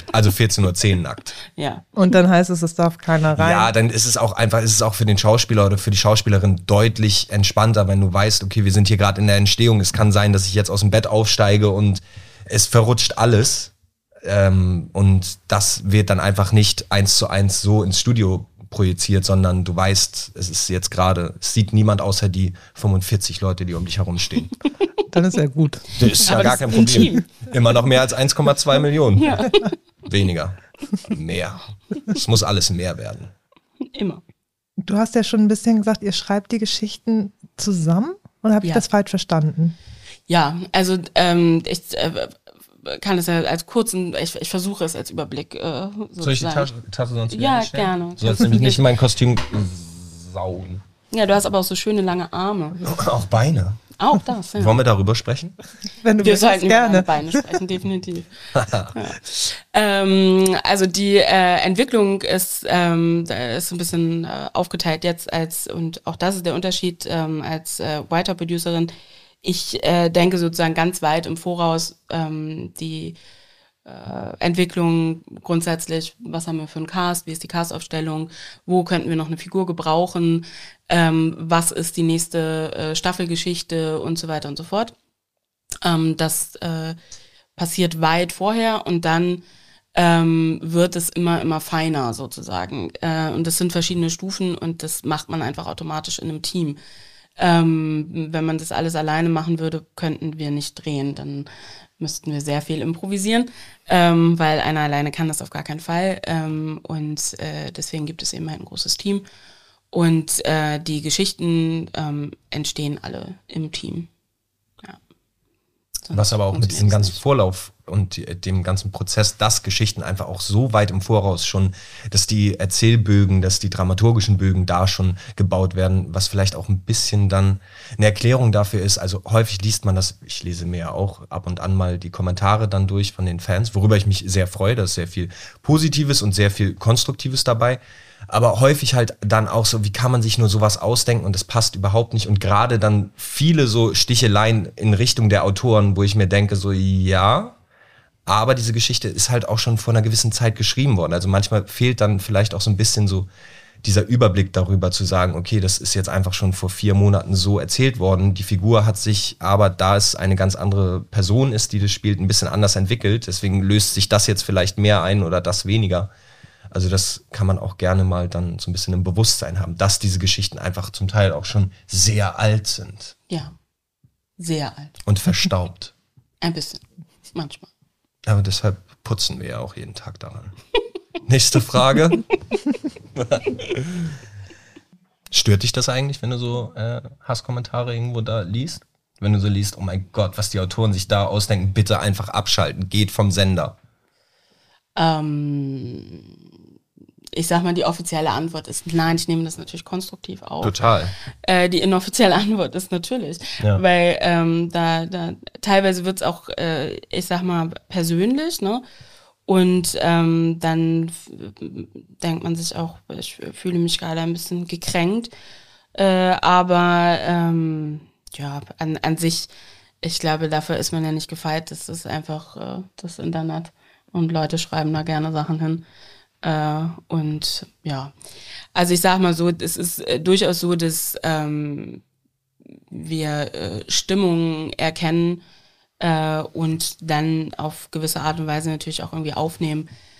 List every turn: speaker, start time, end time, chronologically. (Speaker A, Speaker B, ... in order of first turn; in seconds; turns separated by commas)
Speaker A: 0.1-1.4, Speaker B: 1.5-1.8, Speaker C: 2.0-3.7, Speaker A: 3.4-13.7, Speaker A: 14.2-24.6, Speaker C: 25.1-27.2, Speaker A: 25.9-33.3, Speaker B: 26.2-27.2, Speaker B: 29.2-29.7, Speaker B: 33.9-34.2, Speaker C: 34.8-39.8, Speaker B: 40.3-46.7, Speaker A: 46.2-50.8, Speaker B: 47.3-48.9, Speaker B: 51.1-52.8, Speaker A: 52.8-53.8, Speaker B: 54.0-54.8, Speaker A: 54.6-55.5, Speaker C: 56.0-57.4, Speaker B: 56.2-58.3, Speaker A: 58.5-59.0, Speaker B: 58.9-68.9, Speaker B: 69.4-73.2, Speaker B: 73.8-84.9, Speaker B: 85.8-87.0, Speaker B: 87.6-89.4, Speaker B: 90.0-96.8, Speaker B: 97.4-101.5, Speaker B: 102.0-109.2, Speaker B: 109.9-114.1, Speaker B: 116.1-117.2, Speaker A: 116.1-147.6, Speaker A: 148.3-153.3, Speaker A: 153.8-166.1, Speaker A: 166.7-173.2, Speaker B: 173.3-173.6, Speaker B: 174.4-175.0, Speaker A: 175.1-175.9, Speaker B: 176.4-177.7, Speaker A: 178.3-180.6, Speaker A: 181.3-182.3, Speaker A: 183.2-184.2, Speaker A: 185.3-193.8, Speaker B: 195.0-196.3, Speaker B: 197.3-200.7, Speaker A: 200.6-201.2, Speaker B: 201.3-208.8, Speaker B: 209.5-215.3, Speaker B: 215.9-219.5, Speaker B: 220.0-225.8, Speaker B: 226.4-228.1, Speaker B: 228.7-232.0, Speaker B: 232.9-235.4, Speaker B: 236.0-239.9